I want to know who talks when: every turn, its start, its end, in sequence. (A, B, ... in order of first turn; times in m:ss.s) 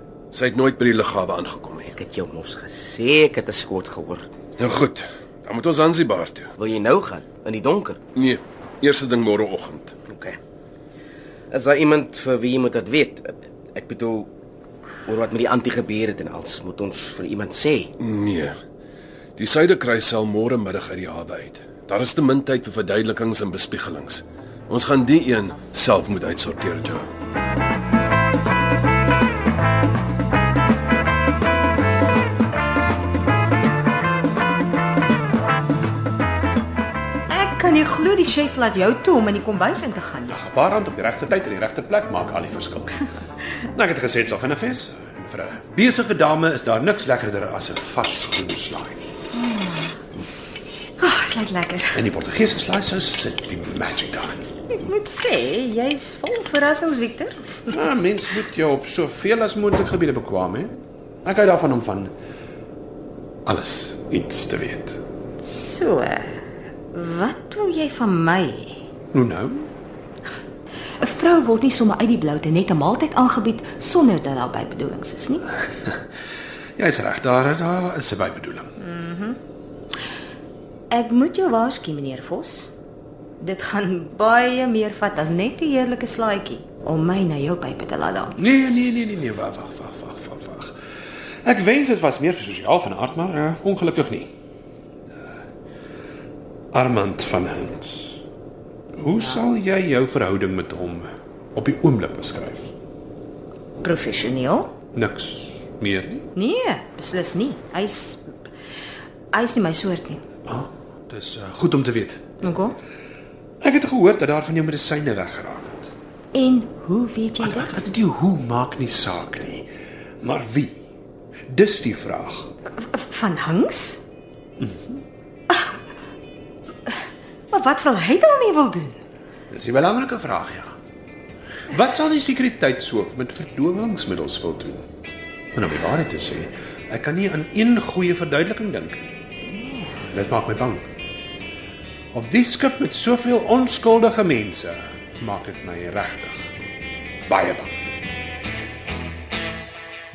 0:00.3-0:02.0 A
0:02.0-0:04.3 B
0:04.6-0:06.5 A
0:06.6-0:08.0 B
0:08.2-0:09.9 A
0:10.1-0:10.4 B
0:11.5-0:14.3 B
0:15.1-0:17.9 B
0:18.0-0:18.6 A
0:19.4-0:27.1 A
0:37.3-0:40.3 C
0:40.3-0:49.1 D
0:49.3-0:50.0 C
0:51.0-0:52.0 C
0:51.9-0:54.5 D
0:54.7-0:57.7 C
0:57.7-1:00.7 D
1:01.2-1:02.1 D
1:03.5-1:05.0 D
1:05.4-1:06.4 C
1:06.9-1:08.8 C
1:09.1-1:09.7 D
1:11.0-1:15.5 C
1:16.8-1:18.8 D
1:18.8-1:19.4 C
1:20.9-1:22.7 C
1:23.4-1:28.5 C
1:28.4-1:30.8 D
1:31.4-1:34.3 D
1:36.7-1:38.2 D
1:39.0-1:42.7 D
1:43.8-1:44.7 C
1:44.9-1:46.3 D
1:46.3-1:48.3 C
1:49.3-1:50.2 C
1:50.5-1:52.3 D
1:52.4-1:52.8 C
1:53.6-1:55.9 D
1:56.3-1:57.8 C
1:57.4-1:59.7 D
2:00.2-2:00.8 D
2:01.5-2:02.5 D
2:02.8-2:04.0 C
2:04.6-2:05.0 D
2:05.5-2:05.8 C
2:06.9-2:09.0 C
2:09.5-2:10.8 D
2:11.7-2:14.9 D
2:15.5-2:19.2 D
2:19.5-2:19.9 C
2:20.0-2:20.9 D
2:22.1-2:26.5 D
2:27.3-2:27.9 D